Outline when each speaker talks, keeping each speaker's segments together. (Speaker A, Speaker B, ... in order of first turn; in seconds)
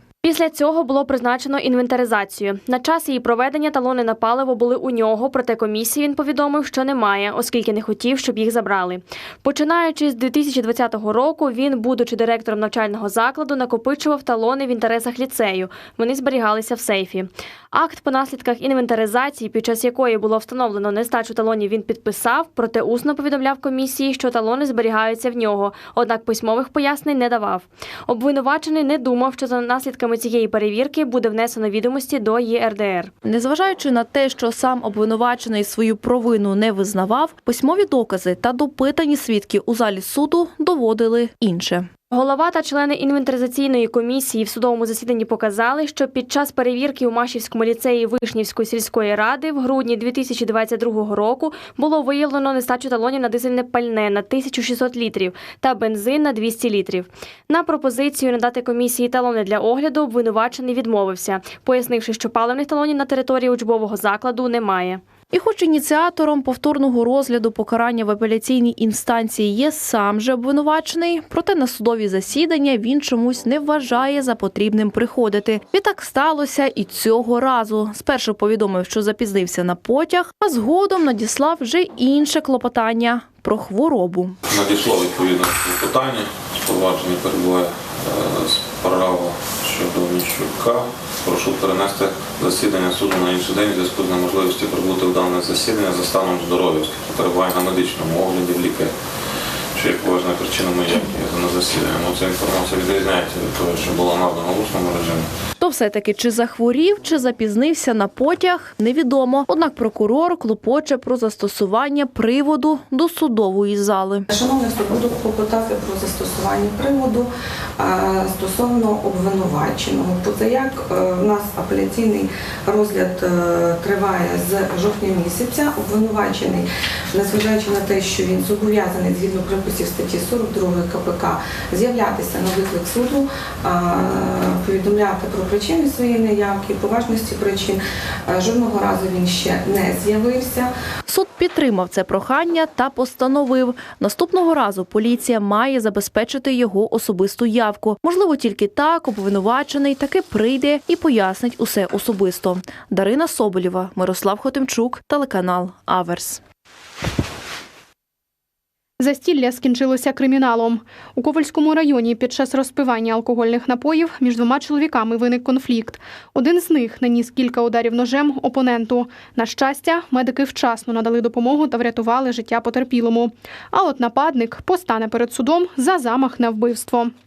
Speaker A: 0.2-33.1, 42.1-65.0
Speaker B: 33.2-41.9, 65.3-84.4, 105.6-114.3, 141.1-156.4
Speaker C: 84.5-98.9, 99.7-105.3
Speaker D: 114.3-140.7
Speaker E: 159.0-177.1